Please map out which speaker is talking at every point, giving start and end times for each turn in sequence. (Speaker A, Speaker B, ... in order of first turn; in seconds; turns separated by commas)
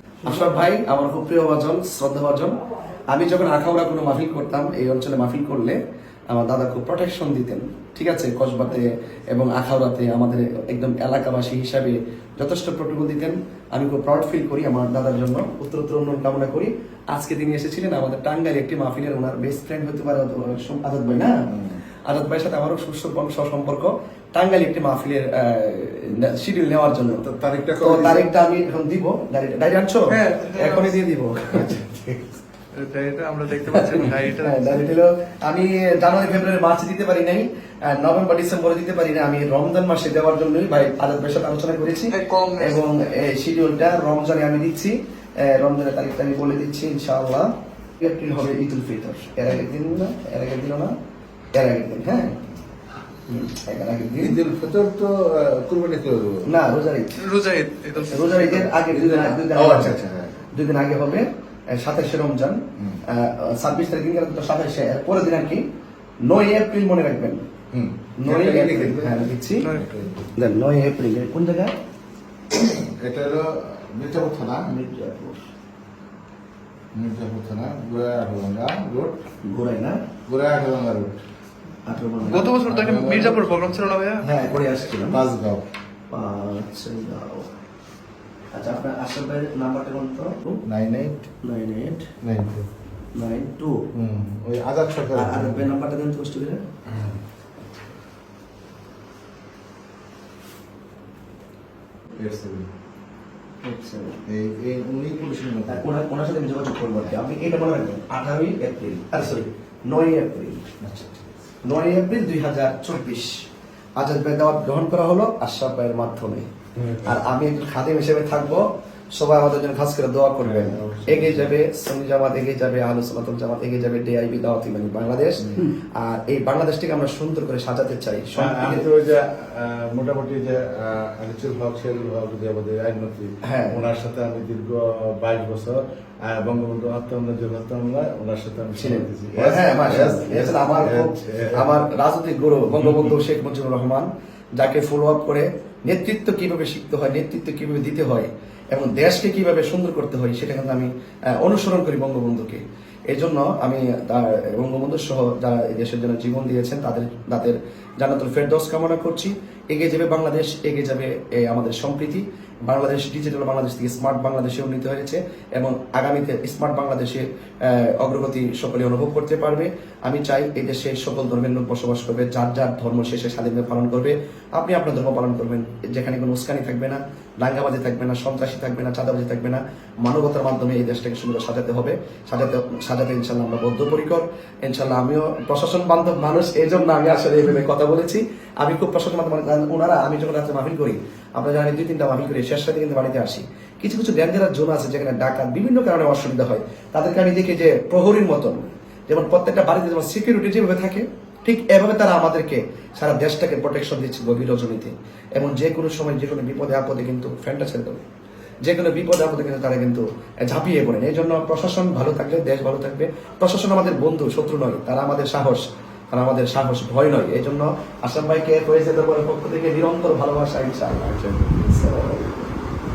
Speaker A: 0.2-5.8, Speaker A: 6.3-21.4, Speaker B: 21.5-21.8, Speaker A: 22.1-27.2, Speaker B: 27.2-28.3, Speaker A: 27.8-32.0, Speaker C: 30.1-31.0, Speaker B: 31.8-32.2, Speaker C: 32.7-34.8, Speaker A: 33.7-50.9, Speaker C: 42.1-42.8, Speaker A: 51.5-52.4, Speaker A: 53.3-54.4, Speaker B: 54.2-56.5, Speaker A: 56.5-57.2, Speaker C: 57.2-58.7, Speaker A: 58.0-60.0, Speaker B: 58.8-60.4, Speaker A: 60.5-65.6, Speaker B: 62.8-63.0, Speaker A: 66.2-67.4, Speaker B: 67.7-70.3, Speaker A: 68.2-69.7, Speaker C: 69.6-69.9, Speaker A: 70.3-71.7, Speaker B: 72.5-74.7, Speaker A: 74.7-75.4, Speaker B: 76.9-79.2, Speaker A: 79.4-80.0, Speaker B: 80.3-81.2, Speaker A: 81.8-82.5, Speaker C: 82.2-84.2, Speaker B: 82.6-83.6, Speaker A: 84.2-85.2, Speaker B: 85.0-85.7, Speaker A: 86.1-87.5, Speaker A: 88.5-90.6, Speaker B: 90.7-91.3, Speaker A: 91.4-92.1, Speaker B: 92.2-92.7, Speaker A: 93.1-93.8, Speaker B: 93.9-95.7, Speaker A: 95.1-96.6, Speaker B: 96.9-97.2, Speaker B: 102.1-102.7, Speaker A: 103.6-104.2, Speaker B: 104.2-105.9, Speaker A: 105.7-110.6, Speaker B: 110.8-111.3, Speaker A: 111.6-113.4, Speaker A: 114.0-116.5, Speaker B: 116.8-117.2, Speaker A: 117.0-128.9, Speaker B: 120.4-121.5, Speaker B: 128.3-141.7, Speaker A: 133.4-133.8, Speaker A: 138.8-208.0, Speaker B: 142.8-143.2, Speaker A: 208.6-222.3